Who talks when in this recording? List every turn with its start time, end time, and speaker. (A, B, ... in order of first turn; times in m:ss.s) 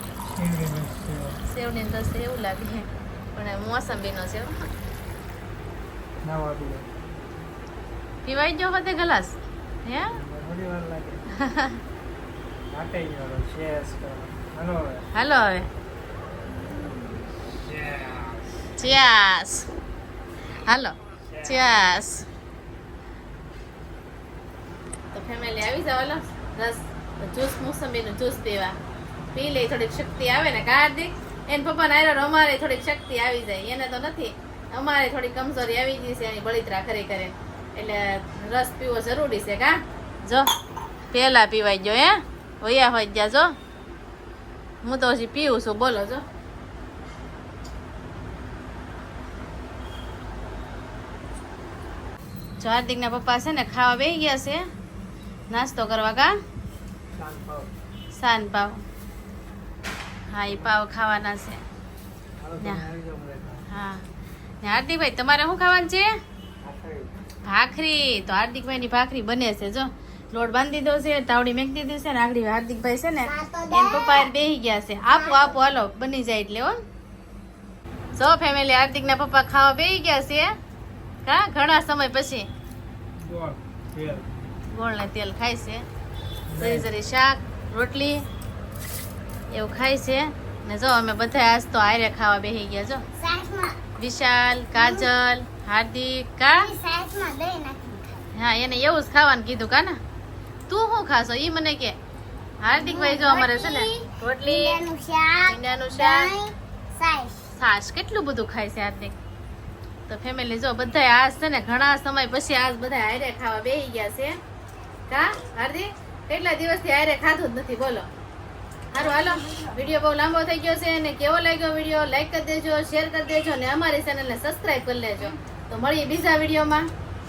0:00.3-0:01.4 A
0:01.5-0:04.5 B
0:06.2-0:06.9 A
0:08.2-0:10.1 B
0:10.2-0:11.2 A
0:11.4-0:11.8 B
0:12.7-0:15.1 A
0:15.1-0:15.7 B
0:16.5-0:17.3 C
0:18.8-0:19.7 B
0:20.6-0:22.3 B
0:25.1-0:28.7 B
0:29.3-0:40.5 B
0:41.1-0:43.5 B
0:44.8-0:46.2 B
0:52.6-0:54.6 B
0:55.5-0:56.3 B
0:57.1-0:57.7 A
0:58.1-0:58.8 B
1:00.3-1:01.6 B
1:02.4-1:03.6 A
1:03.7-1:04.0 B
1:04.6-1:06.0 B
1:06.6-1:07.1 A
1:07.4-1:16.8 B
1:13.2-1:14.3 C
1:15.1-1:15.6 C
1:18.2-1:20.5 B
1:21.2-1:22.4 B
1:23.2-1:24.3 A
1:24.7-1:25.8 B
1:26.5-1:26.9 A
1:26.6-1:28.2 B
1:29.5-1:33.0 B
1:33.2-1:33.8 C
1:34.0-1:36.7 B
1:34.7-1:35.1 C
1:36.6-1:38.2 C
1:38.4-1:40.0 B
1:40.7-1:41.9 B
1:42.6-1:44.8 B
1:42.8-1:47.5 C
1:45.5-1:46.3 B
1:47.6-1:49.1 B
1:50.1-1:54.4 B
1:55.1-1:58.0 B
1:58.9-2:06.9 B
1:58.9-1:59.8 C